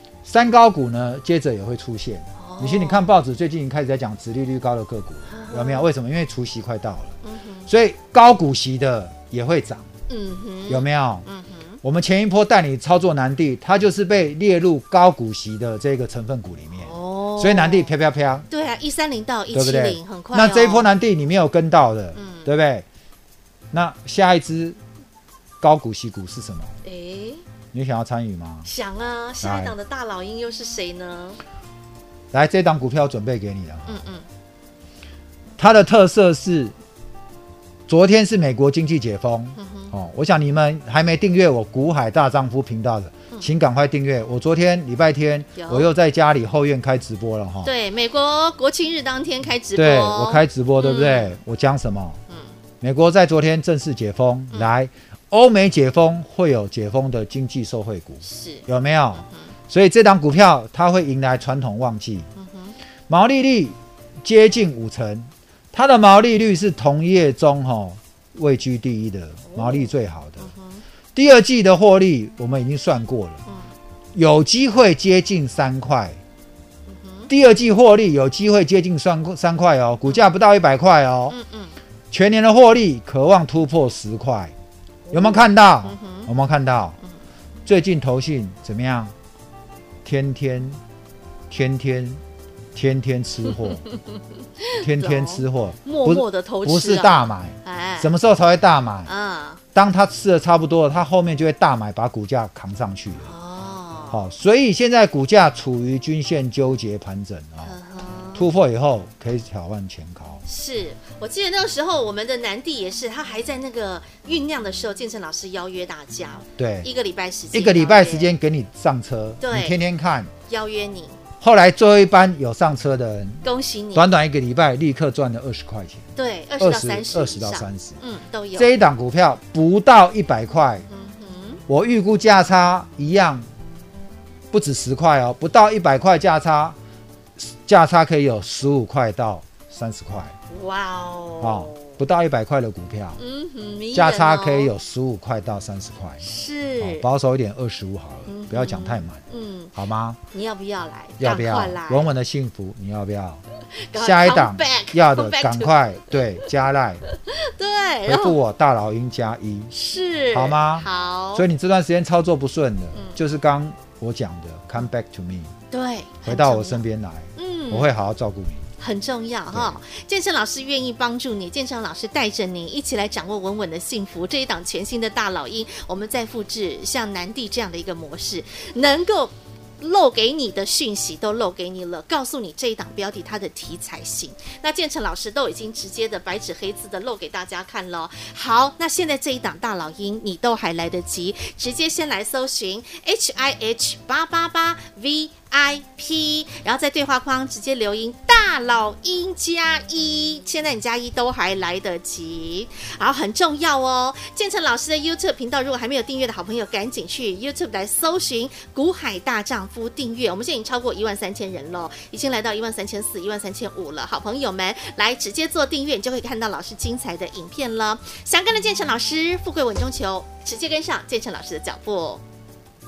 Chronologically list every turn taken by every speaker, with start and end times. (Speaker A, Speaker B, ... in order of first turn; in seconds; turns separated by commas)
Speaker A: 0.2-9.9, Speaker B: 2.4-3.1, Speaker B: 5.3-5.9, Speaker B: 7.2-7.7, Speaker B: 10.1-11.8, Speaker A: 10.7-11.3, Speaker A: 11.8-18.5, Speaker B: 16.8-17.9, Speaker B: 18.5-20.9, Speaker A: 19.5-22.9, Speaker B: 22.1-22.5, Speaker A: 23.7-24.8, Speaker A: 25.6-26.8, Speaker B: 26.8-27.4, Speaker A: 27.7-28.7, Speaker B: 28.6-31.4, Speaker A: 29.4-29.8, Speaker A: 32.3-34.1, Speaker B: 33.9-34.2, Speaker A: 35.6-36.8, Speaker A: 37.9-47.7, Speaker B: 39.6-39.9, Speaker B: 45.6-45.9, Speaker B: 47.6-51.4, Speaker A: 49.8-52.2, Speaker A: 52.8-62.3, Speaker B: 58.2-58.7, Speaker B: 59.2-59.5, Speaker B: 62.4-62.8, Speaker A: 63.1-70.5, Speaker B: 69.5-70.8, Speaker A: 71.2-73.4, Speaker A: 74.2-76.2, Speaker B: 76.9-77.3, Speaker A: 77.3-81.4, Speaker B: 81.3-81.7, Speaker A: 82.1-84.5, Speaker B: 85.1-86.3, Speaker A: 85.1-87.0, Speaker A: 87.7-89.1, Speaker A: 90.0-90.8, Speaker A: 91.5-92.2, Speaker A: 92.8-93.8, Speaker B: 93.8-98.1, Speaker A: 94.8-99.1, Speaker B: 99.1-99.6, Speaker A: 99.8-103.3, Speaker B: 103.2-104.2, Speaker A: 104.1-107.8, Speaker B: 107.6-108.5, Speaker A: 108.3-110.4, Speaker B: 110.5-118.3, Speaker A: 116.6-116.9, Speaker A: 117.5-120.3, Speaker B: 119.4-119.8, Speaker B: 120.5-121.2, Speaker A: 121.4-126.1, Speaker B: 123.4-124.1, Speaker B: 126.2-128.7, Speaker A: 126.6-128.0, Speaker A: 128.5-130.9, Speaker B: 130.9-131.6, Speaker A: 131.7-133.5, Speaker A: 134.5-136.8, Speaker A: 137.4-140.4, Speaker B: 140.5-142.0, Speaker A: 141.4-143.2, Speaker B: 143.2-144.7, Speaker A: 143.9-146.3, Speaker B: 146.2-147.1, Speaker A: 146.8-149.2, Speaker B: 148.3-149.7, Speaker A: 149.8-150.2, Speaker B: 150.3-152.1, Speaker A: 151.2-153.4, Speaker B: 153.9-156.5, Speaker A: 153.9-157.0, Speaker B: 157.1-158.4, Speaker A: 158.1-159.7, Speaker B: 159.7-161.5, Speaker A: 160.3-165.5, Speaker B: 165.7-166.8, Speaker A: 166.2-168.7, Speaker B: 167.4-168.0, Speaker B: 168.8-222.2, Speaker A: 169.5-169.8